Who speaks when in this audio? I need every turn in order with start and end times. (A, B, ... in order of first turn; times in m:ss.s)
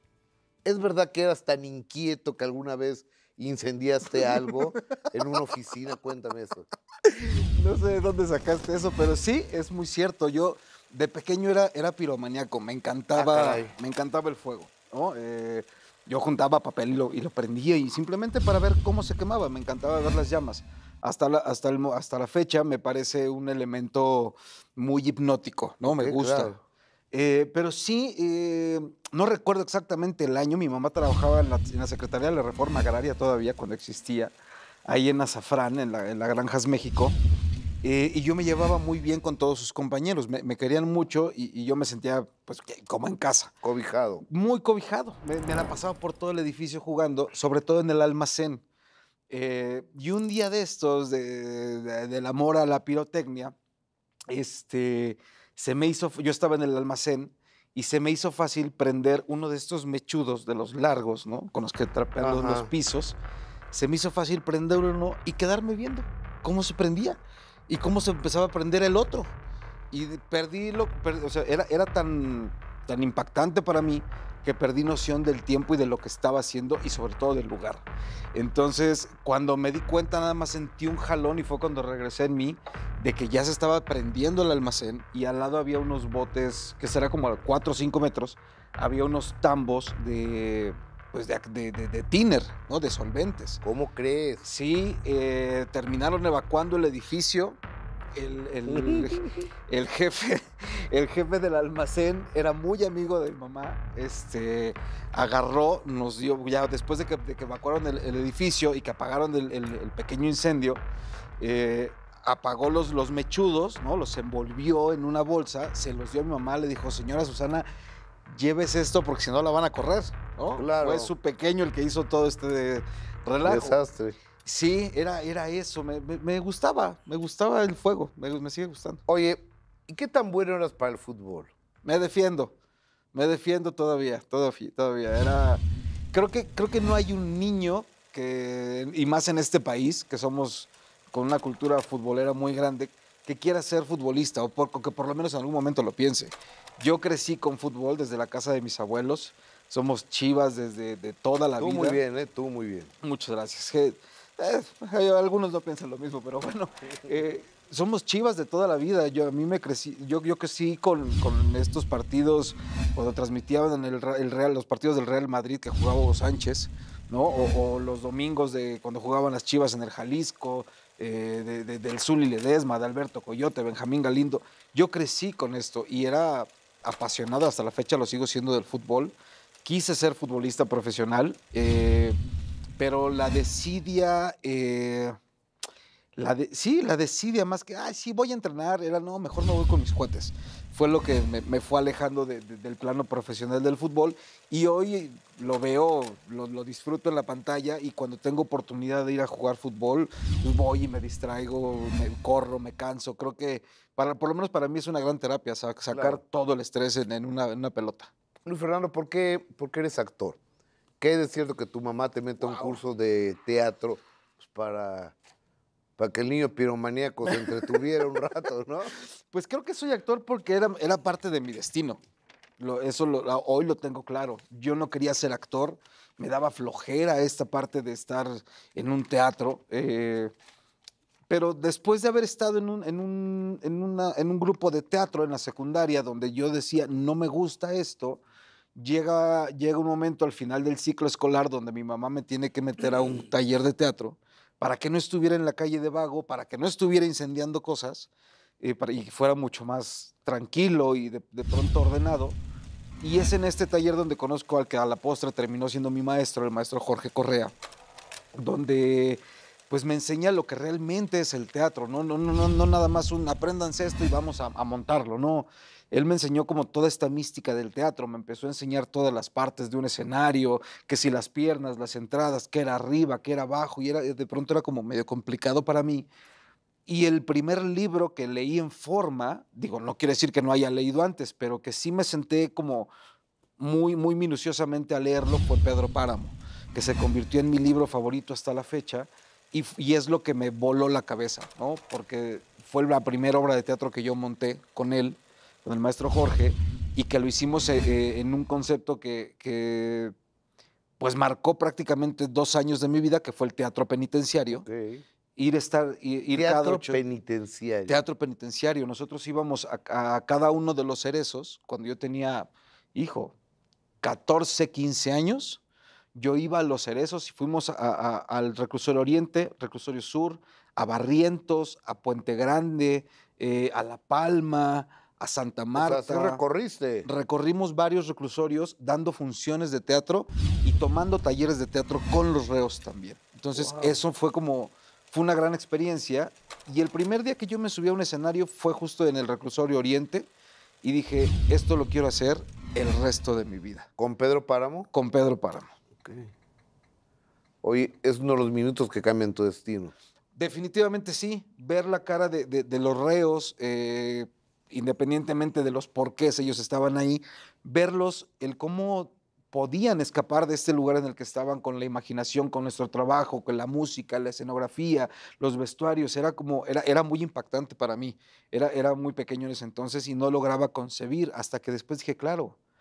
0:00.6-0:06.7 A
0:04.1-0:04.5 B
0:07.1-0:26.5 B
0:13.2-0:13.7 A
0:25.8-0:26.6 A
0:27.1-0:34.3 B
0:34.8-0:37.2 B
0:37.8-0:43.5 B
0:43.6-0:44.2 A
0:44.2-0:48.6 B
0:49.3-0:53.5 B
0:54.3-1:03.2 B
1:02.2-1:02.7 A
1:03.7-1:09.3 B
1:09.9-1:33.6 B
1:33.6-1:34.4 A
1:34.4-1:37.6 B
1:38.1-1:50.8 B
1:38.7-1:39.3 A
1:51.4-1:57.7 B
1:58.3-2:03.8 B
2:00.6-2:01.1 A
2:03.4-2:04.1 A
2:04.4-2:09.0 B
2:09.1-2:11.5 A
2:11.8-2:12.5 B
2:13.1-2:32.0 B
2:31.6-2:32.9 A
2:33.0-3:02.2 B
3:02.8-3:05.2 B
3:06.2-3:28.1 B
3:25.9-3:26.2 A
3:28.4-3:30.4 A
3:31.0-3:35.2 A
3:32.4-3:32.8 B
3:36.0-3:38.9 A
3:39.3-3:42.0 B
3:42.6-3:50.3 B
3:51.3-3:58.2 B
3:58.7-4:12.4 B
4:13.0-4:17.5 B
4:18.3-4:36.1 B
4:36.8-4:42.9 B
4:43.6-5:00.1 B
5:01.0-5:04.6 B
5:04.6-5:05.0 A
5:05.4-5:07.0 B
5:06.3-5:08.0 A
5:07.9-5:13.3 B
5:14.0-5:15.6 B
5:16.1-5:26.4 B
5:25.7-5:27.1 A
5:27.0-5:40.3 B
5:33.5-5:34.0 A
5:40.8-5:43.9 B
5:44.0-5:44.9 A
5:44.9-5:45.7 B
5:46.0-5:46.3 A
5:47.6-5:49.9 A
5:50.4-6:12.6 B